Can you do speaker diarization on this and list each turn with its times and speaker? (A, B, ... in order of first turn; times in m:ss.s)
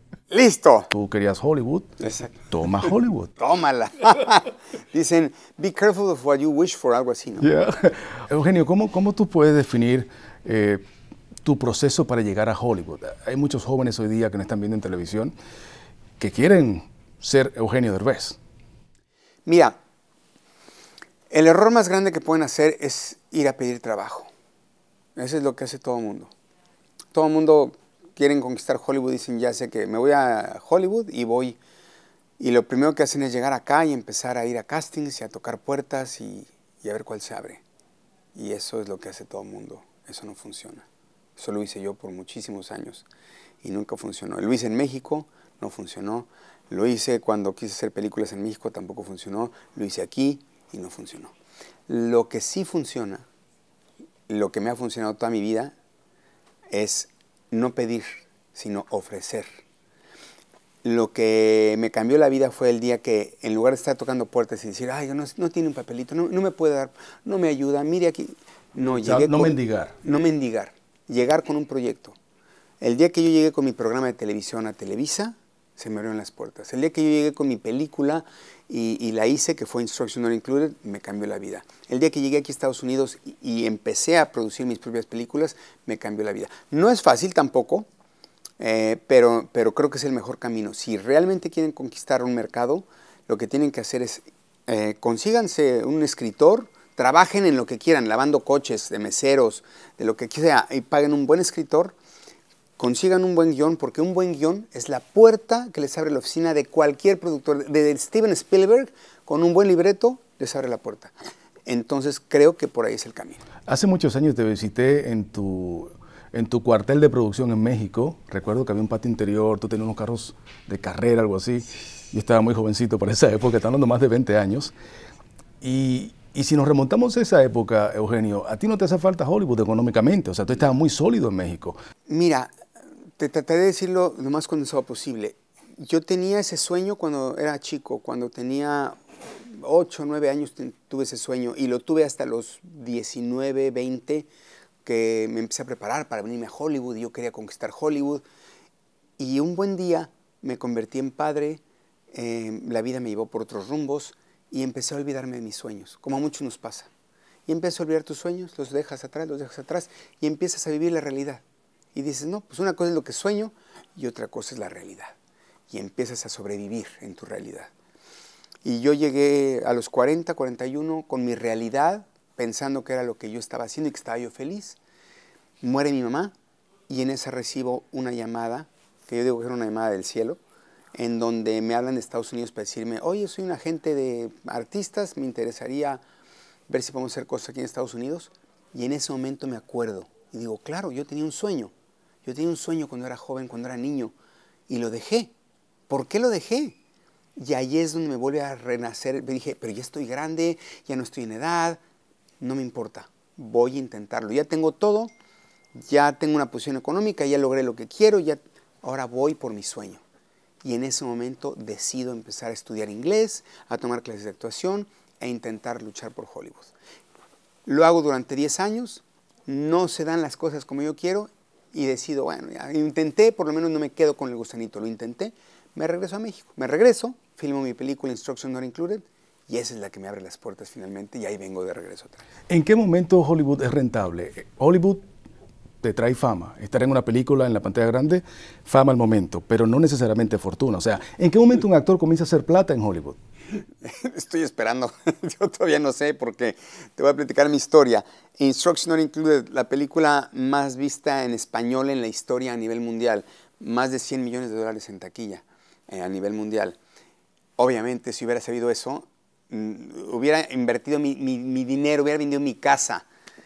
0:00.3-0:00.9 A
0:00.9-0:01.9 B
0:02.0-0:02.3 A
0:02.5-0:03.3 B
0:03.4-0:07.5 A
0:07.4-0:10.8 B
0:11.4-0:15.3 B
0:16.2-0:18.4 B
0:19.5-0:19.8 A
0:21.3-0:24.3 A
0:25.2-0:26.3 A
0:27.1-0:31.6 A
0:32.4-0:37.6 A
0:38.4-0:40.9 A
0:41.4-0:43.1 A
0:43.6-0:51.3 A
0:51.9-0:53.3 A
0:54.3-0:55.8 A
0:56.7-0:59.5 A
1:00.8-1:12.2 A
1:09.0-1:10.0 B
1:12.8-1:27.9 A
1:28.6-1:42.0 A
1:42.8-1:51.1 A
1:51.7-1:53.4 A
1:53.7-2:04.7 B
2:05.6-2:11.8 B
2:12.1-2:12.5 A
2:13.2-2:24.3 A
2:24.8-2:28.2 A
2:29.2-2:31.6 A
2:32.1-2:36.9 A
2:37.5-2:41.4 A
2:41.9-2:45.2 A
2:45.7-2:47.7 A
2:48.6-2:54.8 A
2:55.6-2:56.3 A
2:56.9-3:00.4 A
3:01.0-3:06.0 A
3:06.7-3:11.7 A
3:12.2-3:14.1 A
3:14.7-3:15.3 A
3:15.9-3:16.8 A
3:17.4-3:21.8 A
3:22.4-3:25.1 A
3:25.8-3:30.0 A
3:30.6-3:36.7 A
3:37.7-3:52.2 A
3:52.5-3:55.0 B
3:55.8-4:03.2 B
4:03.8-4:16.8 A
4:17.6-4:23.0 A